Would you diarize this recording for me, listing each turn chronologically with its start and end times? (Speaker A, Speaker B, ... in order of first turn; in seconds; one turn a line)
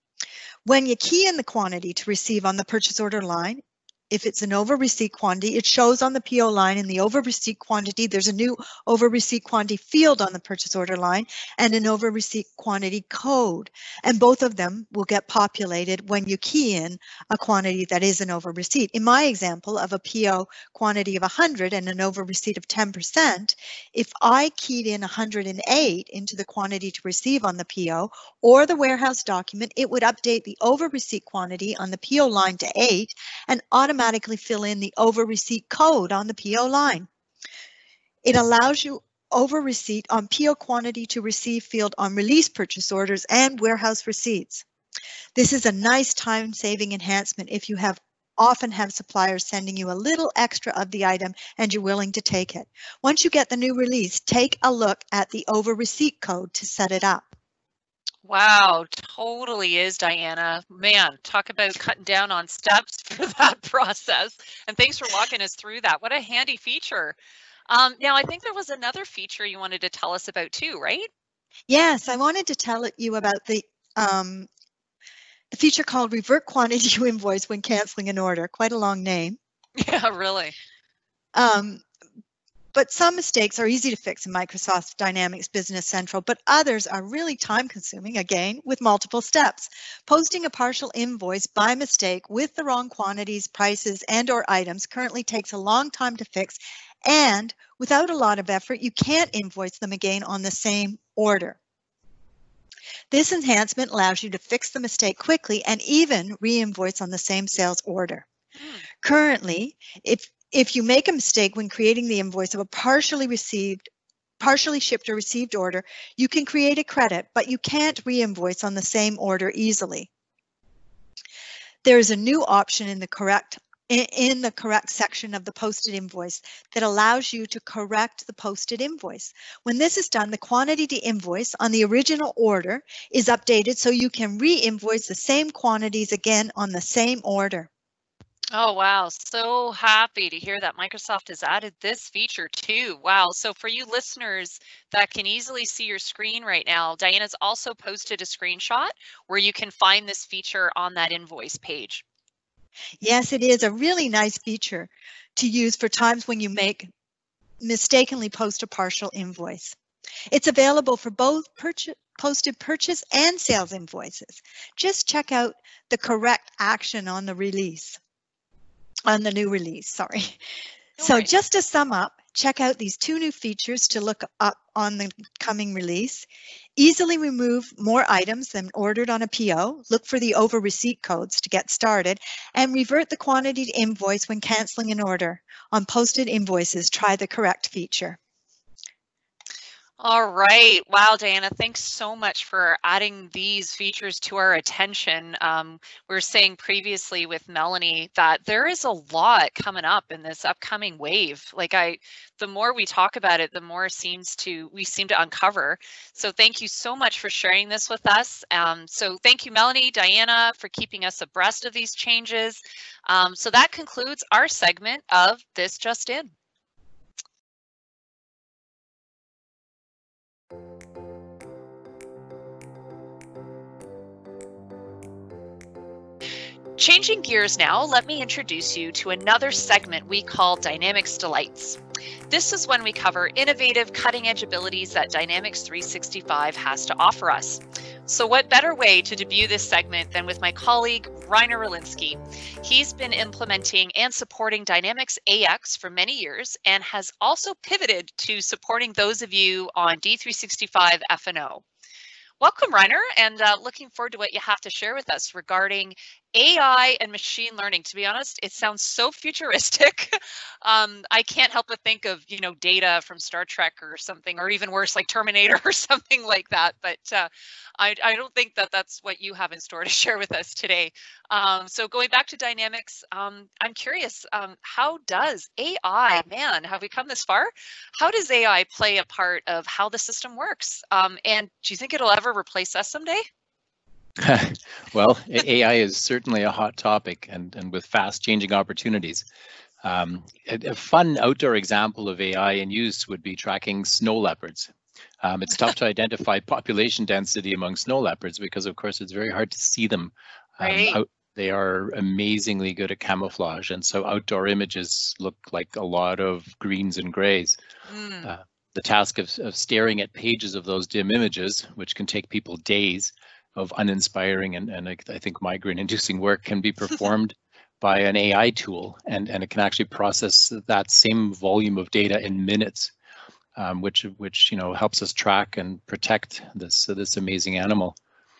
Speaker A: 0.6-37.1
Speaker A: 38.2-44.6
Speaker A: 45.3-57.2
Speaker B: 58.2-67.2
Speaker B: 67.7-71.1
Speaker A: 71.7-74.5
Speaker A: 75.5-79.4
Speaker B: 79.8-80.5
Speaker A: 81.3-81.8
Speaker A: 82.7-101.6
Speaker A: 103.1-108.2
Speaker B: 108.6-108.8
Speaker A: 109.0-113.9
Speaker A: 114.4-120.1
Speaker A: 121.8-137.7
Speaker B: 138.5-152.0
Speaker A: 153.0-156.9
Speaker A: 157.6-159.8
Speaker A: 160.3-168.0
Speaker A: 169.1-170.4
Speaker B: 171.0-171.3
Speaker A: 171.0-188.2
Speaker B: 190.0-216.3
Speaker B: 226.8-231.8
Speaker B: 232.3-251.6
Speaker B: 252.4-283.2
Speaker C: 284.2-289.2
Speaker C: 289.8-307.6
Speaker B: 300.6-301.0
Speaker B: 307.9-308.3
Speaker C: 308.2-322.9
Speaker C: 323.6-327.9